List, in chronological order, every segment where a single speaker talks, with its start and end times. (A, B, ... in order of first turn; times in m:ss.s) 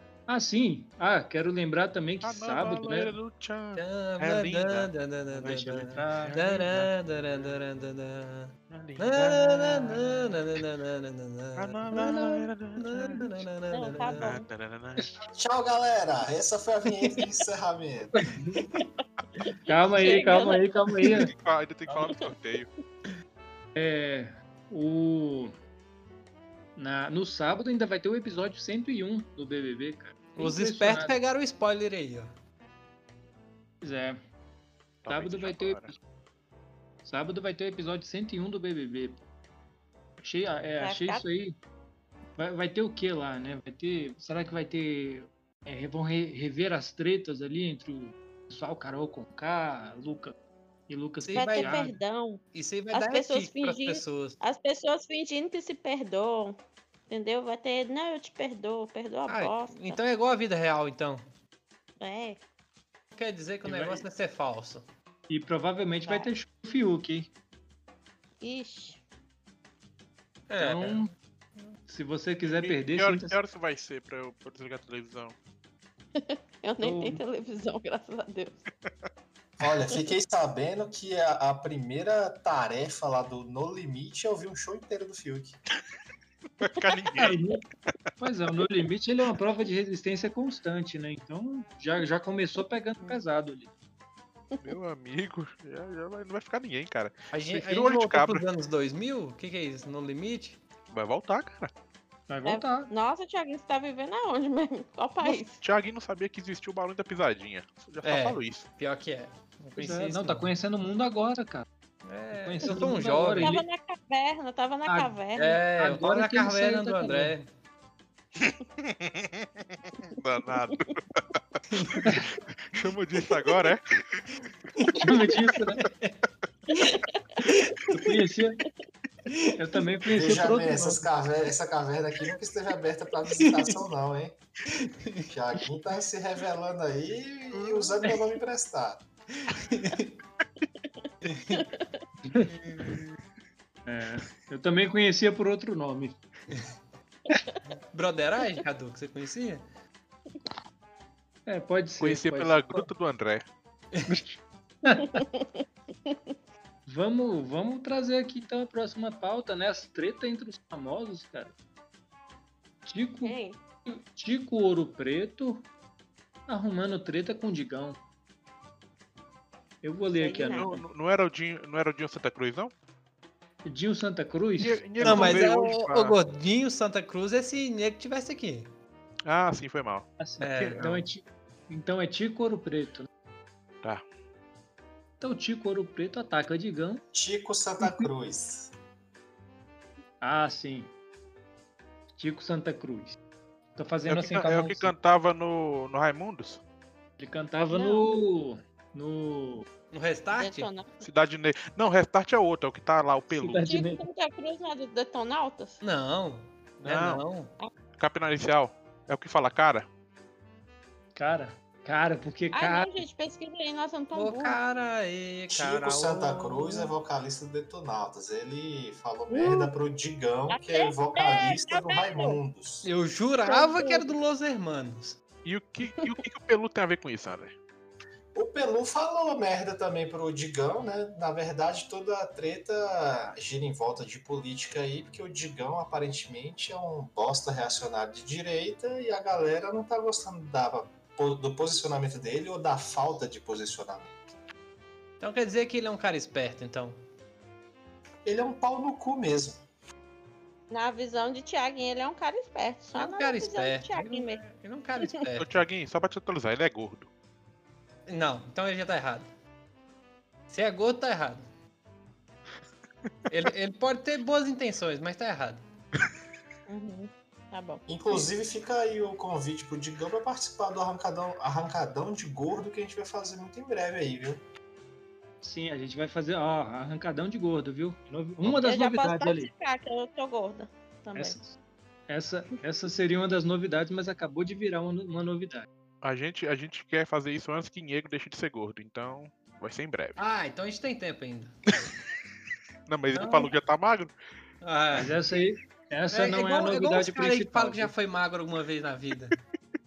0:00.3-0:03.2 A
0:02.2-0:04.9 B
0:03.8-0:12.2 C
0:05.4-0:06.7 A
0:06.2-0:06.9 B
0:08.7-0:10.4 B
0:11.6-0:13.3 B
0:11.9-0:12.4 A
0:12.8-0:14.3 C
0:13.7-0:14.5 D
0:14.2-0:15.1 B
0:15.3-0:18.2 E
0:18.2-0:18.6 A
0:19.4-0:21.0 D
0:19.7-0:21.3 A
0:21.0-0:22.7 B
0:23.8-0:25.5 A
0:26.8-0:31.2 A
0:30.4-0:32.3 C
0:33.8-0:34.2 A
0:35.0-0:35.9 B
0:35.1-0:36.0 A
0:37.0-0:39.2 A
0:40.2-0:41.6 A
0:40.8-0:41.2 D
0:42.4-0:50.3 A
0:50.9-0:52.0 A
0:51.2-0:52.0 C
0:51.3-1:00.0 D
0:52.5-0:54.4 C
0:59.3-1:01.2 C
1:02.0-1:02.4 D
1:03.1-1:04.9 C
1:03.7-1:04.0 A
1:05.3-1:07.3 A
1:08.4-1:09.0 D
1:10.5-1:11.0 C
1:10.6-1:11.1 A
1:11.9-1:13.4 A
1:12.5-1:15.4 B
1:16.2-1:18.6 D
1:16.8-1:17.2 A
1:19.6-1:25.6 E
1:26.6-1:27.4 B
1:27.2-1:27.6 A
1:28.2-1:33.7 A
1:34.6-1:38.5 B
1:37.3-1:40.6 C
1:40.9-1:41.7 B
1:42.3-1:42.9 A
1:42.4-1:45.6 D
1:45.2-1:48.7 B
1:48.0-1:50.5 C
1:49.8-1:51.7 A
1:52.0-1:53.6 C
1:52.4-1:53.6 A
1:53.4-1:55.6 D
1:54.9-1:55.2 A
1:55.4-1:57.5 C
1:55.8-1:57.3 A
1:58.4-2:04.2 B
2:01.7-2:02.1 C
2:04.8-2:05.3 C
2:05.0-2:05.8 A
2:05.8-2:06.2 C
2:06.7-2:07.5 D
2:07.4-2:08.0 C
2:07.9-2:08.6 A
2:09.3-2:09.5 C
2:09.6-2:11.0 A
2:10.1-2:14.4 E
2:13.4-2:13.7 C
2:14.7-2:15.3 C
2:15.3-2:19.0 E
2:19.4-2:20.2 C
2:20.8-2:22.0 D
2:21.2-2:21.7 C
2:22.4-2:23.0 C
2:23.9-2:26.2 A
2:27.7-2:29.6 C
2:31.5-2:32.9 A
2:32.0-2:33.5 B
2:34.1-2:35.2 A
2:35.0-2:36.3 D
2:36.9-2:41.5 A
2:42.9-2:45.6 A
2:43.2-2:43.6 D
2:46.5-2:48.0 A
2:49.8-2:50.8 A
2:50.2-2:50.8 D
2:50.5-2:52.7 B
2:53.6-2:55.5 A
2:54.6-2:56.2 B
2:55.0-2:58.7 C
2:59.3-3:01.0 B
3:00.2-3:03.1 A
3:00.4-3:00.9 C
3:05.2-3:07.0 A
3:07.1-3:08.7 E
3:07.8-3:08.1 A
3:10.2-3:10.9 A
3:12.1-3:13.2 A
3:13.8-3:14.9 A
3:14.1-3:16.6 B
3:17.2-3:19.7 A
3:17.7-3:18.1 D
3:19.9-3:20.7 C
3:20.3-3:21.0 D
3:21.0-3:23.7 B
3:23.3-3:24.0 A
3:23.6-3:25.8 D
3:25.8-3:27.5 C
3:26.8-3:27.2 B
3:28.0-3:29.9 B
3:31.2-3:33.0 A
3:32.5-3:34.6 D
3:34.2-3:36.9 C
3:35.5-3:42.9 E
3:39.3-3:39.7 D
3:40.5-3:42.4 D
3:42.8-3:45.2 C
3:43.4-3:44.2 D
3:45.4-3:47.6 B
3:48.4-4:04.2 E
4:05.2-4:07.0 C
4:08.2-4:09.6 E
4:10.7-4:14.4 D
4:13.0-4:15.6 C
4:15.4-4:17.1 B
4:18.1-4:19.3 C
4:20.5-4:21.5 C
4:23.3-4:25.6 C
4:26.7-4:28.2 D
4:27.9-4:34.4 E
4:35.4-4:39.5 A
4:38.4-4:41.4 D
4:41.2-4:41.6 A
4:42.1-4:45.7 A
4:46.0-4:50.2 B
4:50.2-4:51.6 C
4:52.9-4:54.1 B
4:53.1-4:53.6 C
4:54.6-4:55.2 C
4:55.0-4:57.9 A
4:56.1-4:59.4 C